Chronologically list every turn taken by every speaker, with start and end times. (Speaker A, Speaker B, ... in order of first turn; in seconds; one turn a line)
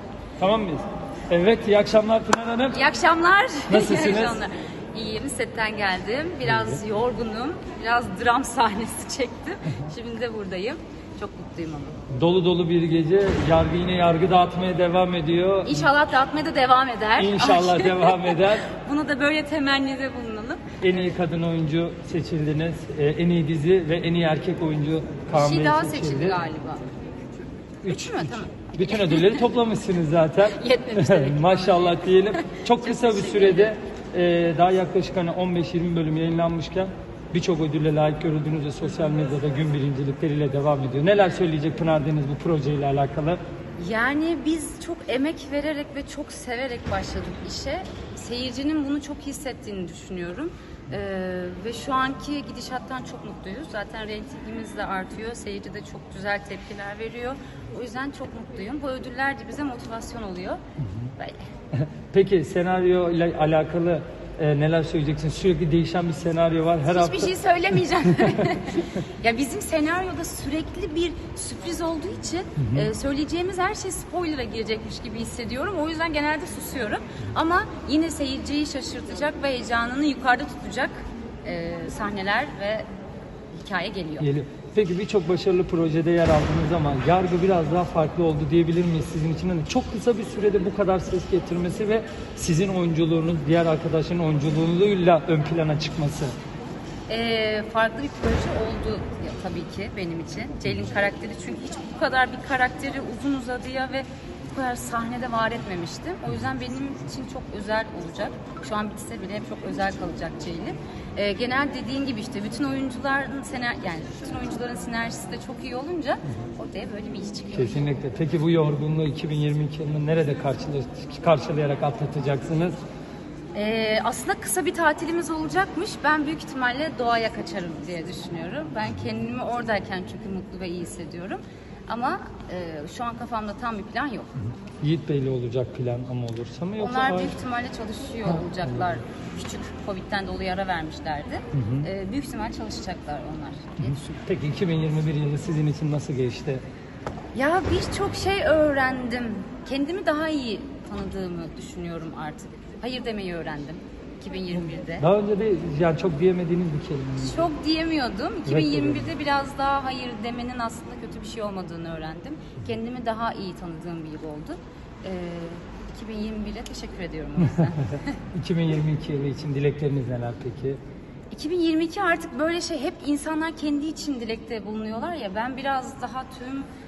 Speaker A: 0.4-2.8
Speaker B: 2.7-12.0
Speaker A: 3.7-4.4
Speaker A: 6.5-6.8
Speaker A: 12.1-15.9
Speaker B: 15.7-20.7
Speaker A: 17.2-18.7
Speaker A: 20.8-26.4
Speaker B: 25.3-26.8
Speaker A: 27.8-43.4
Speaker B: 27.9-29.4
Speaker B: 30.5-33.7
Speaker B: 43.8-60.6
Speaker A: 61.7-67.3
Speaker B: 66.9-82.8
Speaker A: 72.6-72.9
Speaker B: 83.5-84.3
Speaker A: 84.2-96.3
Speaker B: 97.1-117.8
Speaker A: 117.5-122.8
Speaker B: 123.5-134.3
Speaker A: 134.8-137.3
Speaker B: 136.8-144.1
Speaker A: 141.5-141.9
Speaker A: 143.8-146.6
Speaker B: 147.3-155.1
Speaker A: 155.0-157.5
Speaker B: 157.2-168.2
Speaker A: 158.5-159.1
Speaker A: 168.3-170.8
Speaker B: 171.3-176.7